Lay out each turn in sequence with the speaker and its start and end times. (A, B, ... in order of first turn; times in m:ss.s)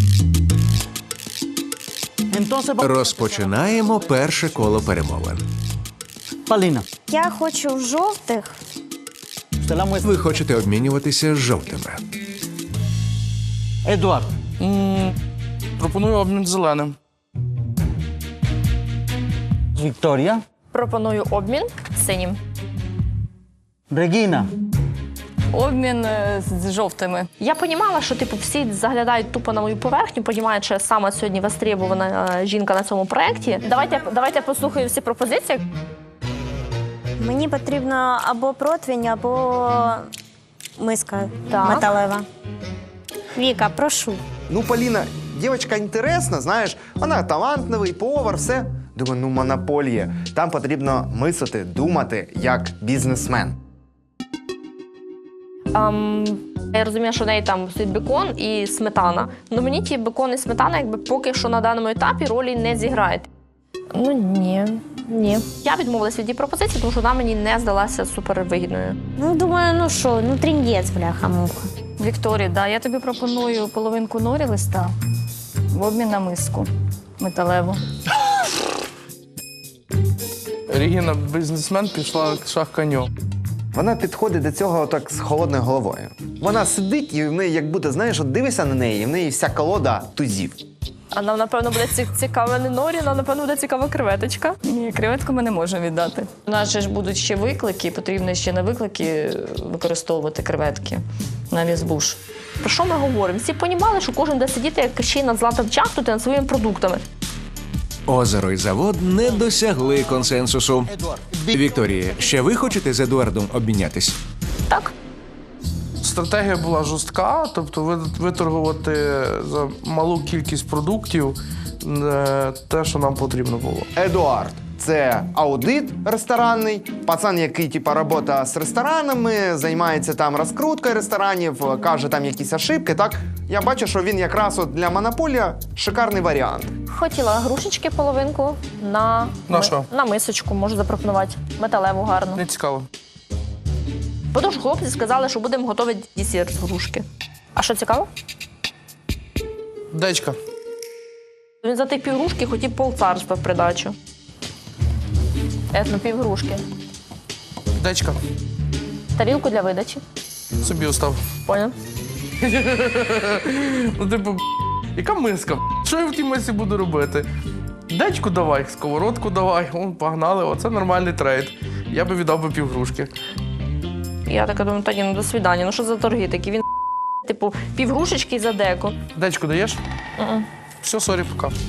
0:02.3-0:03.0 A
0:02.8-0:05.4 B
0:06.5-0:06.8 A
0:07.1-0:08.6 C
0:09.6-0:10.1 A
0:10.0-0:12.0 B
0:13.8-0:14.3 A
0:14.6-0:15.1 D
0:15.8-0:17.0 D
0:19.8-0:20.4 A
0:20.7-0:22.4 E
0:23.9-0:24.5 A
0:25.5-0:27.3 F
0:27.4-0:35.6 E
0:37.2-0:40.0 C
0:40.8-0:42.2 C
0:41.5-0:41.9 E
0:43.3-0:44.2 C
0:44.5-0:53.6 G
0:55.7-1:03.3 E
1:03.9-1:09.0 E
1:09.2-1:11.7 C
1:12.0-1:14.9 F
1:15.7-1:17.8 F
1:20.7-1:23.1 D
1:23.7-1:30.6 G
1:31.1-1:34.6 E
1:34.6-1:42.2 F
1:42.6-1:47.0 E
1:48.1-1:54.2 B
1:51.0-1:51.6 A
1:56.0-2:03.9 D
2:04.0-2:16.7 G
2:16.9-2:22.4 E
2:19.5-2:19.8 D
2:22.3-2:22.9 D
2:24.3-2:28.1 E
2:29.9-2:30.4 D
2:31.6-2:33.9 E
2:35.7-2:36.6 E
2:37.8-2:38.2 D
2:39.2-2:40.0 E
2:40.6-2:41.2 D
2:41.5-2:41.7 E
2:42.4-2:44.4 D
2:45.0-2:47.3 D
2:47.9-2:53.1 D
2:54.2-2:56.6 E
2:57.2-2:59.0 E
2:59.2-2:59.8 D
3:00.2-3:00.4 E
3:00.8-3:01.5 D